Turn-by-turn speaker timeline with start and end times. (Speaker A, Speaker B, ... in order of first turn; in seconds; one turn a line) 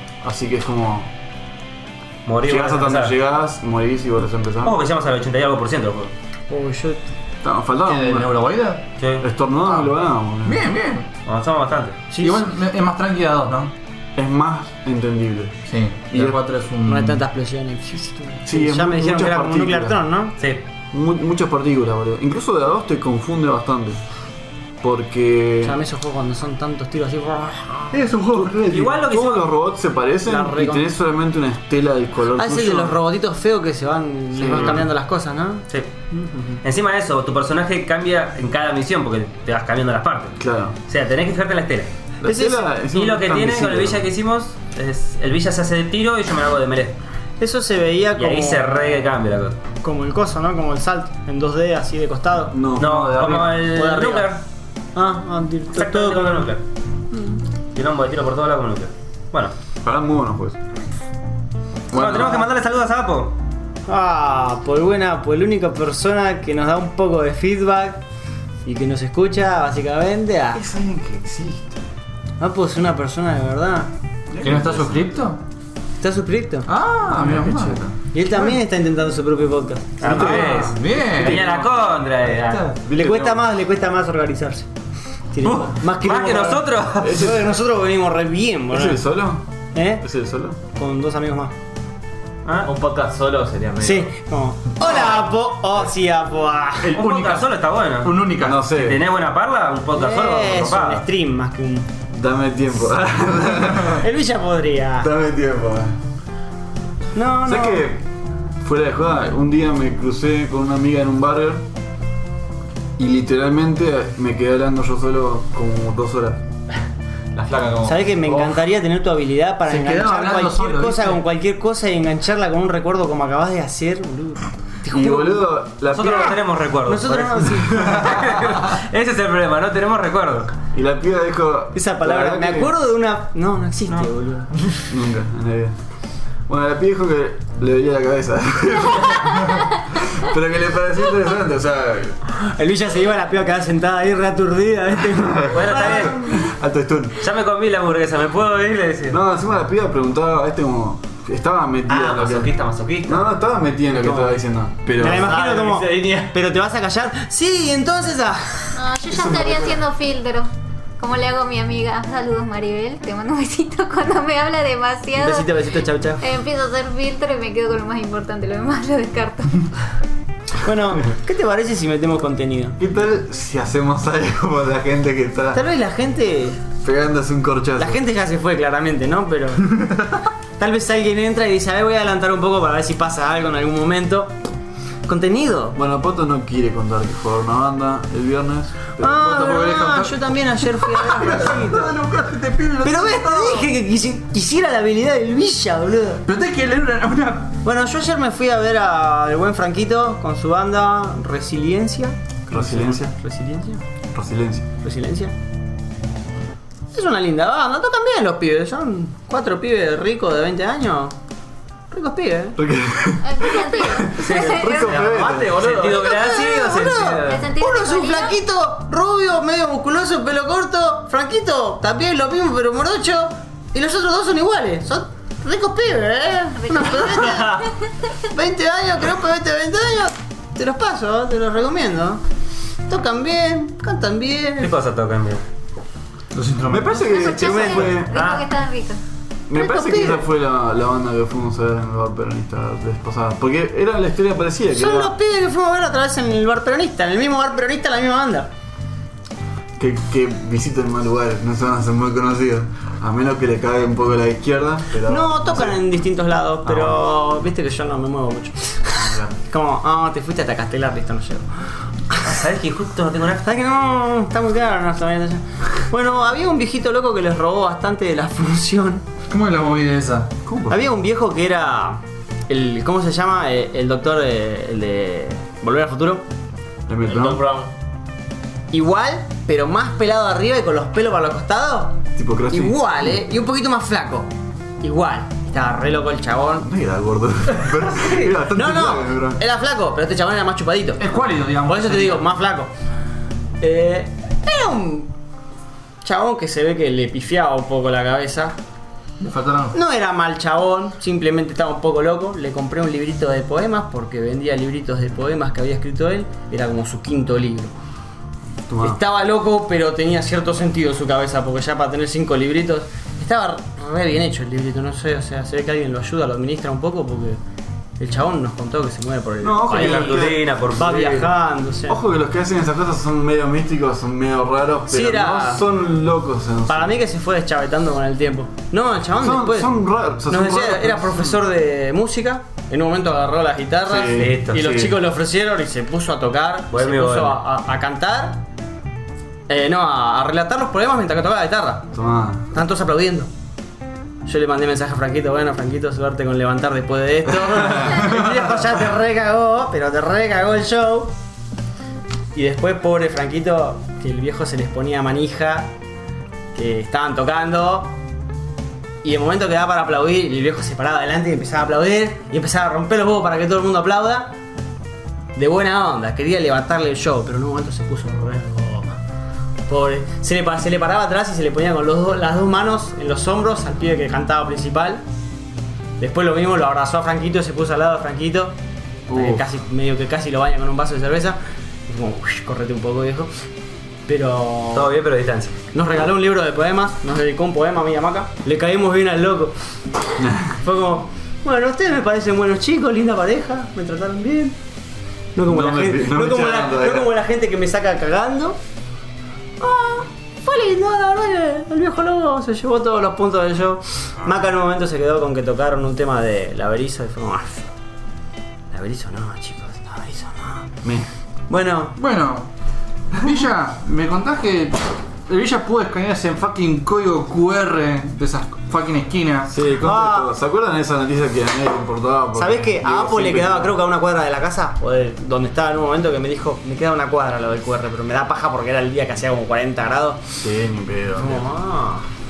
Speaker A: 0.2-1.1
Speaker B: 2.2-3.1
Speaker A: 2.4-4.8
Speaker B: 4.6-6.1
Speaker C: 6.5-7.0
Speaker A: 7.4-8.4
Speaker D: 7.8-8.8
Speaker B: 9.0-9.2
Speaker A: 9.2-10.7
Speaker D: 10.4-11.1
Speaker B: 11.3-12.0
Speaker C: 12.1-12.4
Speaker D: 12.2-13.7
Speaker A: 14.2-16.4
Speaker D: 15.7-17.2
Speaker C: 16.9-20.4
Speaker A: 18.4-20.0
Speaker A: 20.9-24.0
Speaker A: 24.8-25.8
Speaker C: 25.6-28.0
Speaker A: 27.9-33.0
Speaker B: 28.7-29.5
Speaker C: 30.2-30.9
Speaker C: 32.4-36.6
Speaker A: 34.5-34.8
Speaker B: 36.6-41.9
Speaker A: 40.4-40.8
Speaker A: 42.2-44.0
Speaker C: 42.2-42.7
Speaker B: 42.9-47.0
Speaker C: 47.4-49.0
Speaker B: 48.2-49.6
Speaker C: 49.8-52.6
Speaker A: 52.5-53.6
Speaker B: 52.8-54.4
Speaker C: 53.4-54.3
Speaker C: 55.0-56.5
Speaker B: 55.7-56.6
Speaker C: 57.1-57.4
Speaker B: 57.8-59.5
Speaker A: 59.8-60.6
Speaker A: 61.9-62.5
Speaker B: 61.9-63.4
Speaker C: 63.9-68.0
Speaker C: 68.7-70.6
Speaker A: 70.5-71.8
Speaker C: 72.4-73.9
Speaker A: 74.3-75.2
Speaker D: 74.4-75.4
Speaker C: 76.0-76.7
Speaker D: 76.7-78.6
Speaker A: 77.1-77.9
Speaker C: 78.1-80.2
Speaker B: 80.0-82.7
Speaker D: 80.1-81.5
Speaker A: 80.1-81.7
Speaker D: 82.4-82.7
Speaker A: 82.7-83.4
Speaker C: 83.0-84.7
Speaker C: 85.3-89.0
Speaker B: 85.4-87.3
Speaker A: 87.0-87.5
Speaker A: 88.7-89.5
Speaker C: 89.7-90.0
Speaker A: 90.0-90.6
Speaker C: 90.7-91.5
Speaker B: 92.5-92.7
Speaker E: 92.6-94.1
Speaker C: 93.8-96.9
Speaker D: 96.8-98.6
Speaker B: 96.9-101.0
Speaker A: 98.4-99.0
Speaker C: 99.9-101.9
Speaker A: 102.1-104.0
Speaker C: 103.8-105.1
Speaker A: 105.0-106.0
Speaker C: 107.2-107.8
Speaker A: 107.4-108.1
Speaker A: 108.6-111.7
Speaker A: 113.0-116.4
Speaker E: 117.3-118.0
Speaker C: 117.8-125.5
Speaker D: 118.3-118.5
Speaker D: 119.7-121.2
Speaker A: 124.9-126.4
Speaker B: 125.9-130.5
Speaker C: 126.9-128.2
Speaker A: 130.7-132.7
Speaker C: 131.7-134.6
Speaker A: 134.9-135.8
Speaker A: 136.5-142.2
Speaker C: 142.5-146.3
Speaker A: 145.2-147.2
Speaker B: 145.5-146.2
Speaker B: 147.2-149.2
Speaker A: 149.1-155.4
Speaker E: 151.9-153.2
Speaker E: 153.9-154.3
Speaker C: 154.9-158.8
Speaker E: 155.0-156.3
Speaker F: 158.8-165.5
Speaker A: 159.2-159.6
Speaker C: 165.2-166.2
Speaker F: 166.2-169.7
Speaker C: 170.6-172.8
Speaker A: 172.8-175.6
Speaker C: 175.5-176.6
Speaker A: 176.8-178.0
Speaker C: 177.8-179.9
Speaker C: 180.6-184.3
Speaker C: 185.1-185.8
Speaker A: 185.8-189.4
Speaker C: 189.0-191.9
Speaker D: 189.2-193.7
Speaker C: 192.8-196.2
Speaker D: 196.2-197.6
Speaker C: 197.6-203.8
Speaker A: 202.5-203.1
Speaker A: 204.1-204.7
Speaker C: 204.8-205.3
Speaker C: 206.9-211.2
Speaker C: 211.9-212.6
Speaker A: 212.6-215.7
Speaker F: 213.2-215.0
Speaker B: 214.2-217.5
Speaker E: 214.8-216.2
Speaker C: 215.8-227.7
Speaker F: 217.1-218.4
Speaker F: 226.6-227.6
Speaker C: 228.3-232.2
Speaker C: 232.9-234.7
Speaker B: 234.6-235.4
Speaker D: 236.3-237.2
Speaker A: 236.7-238.2
Speaker F: 237.0-239.0
Speaker C: 237.4-238.3
Speaker B: 238.2-238.4
Speaker A: 239.5-245.1
Speaker C: 239.6-240.2
Speaker C: 244.7-248.5
Speaker A: 249.8-255.8
Speaker C: 255.1-262.3
Speaker A: 259.0-259.4
Speaker B: 262.2-263.5
Speaker C: 263.4-269.1
Speaker D: 269.3-270.3
Speaker A: 270.4-270.8
Speaker C: 270.7-276.2
Speaker A: 276.9-277.4
Speaker E: 277.1-277.7
Speaker C: 278.7-286.7
Speaker A: 282.2-282.8
Speaker A: 286.6-289.4
Speaker C: 288.5-292.7
Speaker D: 291.0-292.3
Speaker C: 293.6-295.1
Speaker C: 296.0-298.6
Speaker D: 299.2-299.8
Speaker C: 299.7-307.8
Speaker A: 308.7-309.0
Speaker C: 308.8-317.4
Speaker C: 318.0-322.0
Speaker A: 319.4-320.5
Speaker B: 319.7-321.3
Speaker A: 321.9-326.9
Speaker C: 324.9-325.6
Speaker C: 326.7-338.4
Speaker A: 329.2-331.4
Speaker A: 333.9-335.0
Speaker B: 334.2-334.6
Speaker B: 336.7-337.4
Speaker C: 339.5-341.9
Speaker A: 341.9-342.5
Speaker C: 342.5-343.3
Speaker C: 344.2-351.1
Speaker A: 347.7-348.2
Speaker C: 352.3-355.7
Speaker C: 356.5-357.9
Speaker C: 359.0-364.3
Speaker C: 365.4-369.0
Speaker C: 369.7-375.0
Speaker C: 376.0-378.6
Speaker C: 379.1-383.3
Speaker C: 384.1-384.9
Speaker B: 384.7-385.6
Speaker C: 385.7-389.6
Speaker A: 390.2-390.6
Speaker C: 390.6-394.6
Speaker C: 395.4-398.6
Speaker A: 395.4-397.1
Speaker C: 399.6-407.7
Speaker C: 408.7-410.7
Speaker C: 411.5-411.9
Speaker D: 412.0-412.5
Speaker D: 413.2-419.5
Speaker A: 419.5-423.8
Speaker C: 419.8-420.3
Speaker C: 422.4-430.2
Speaker A: 430.4-431.5
Speaker C: 431.2-432.1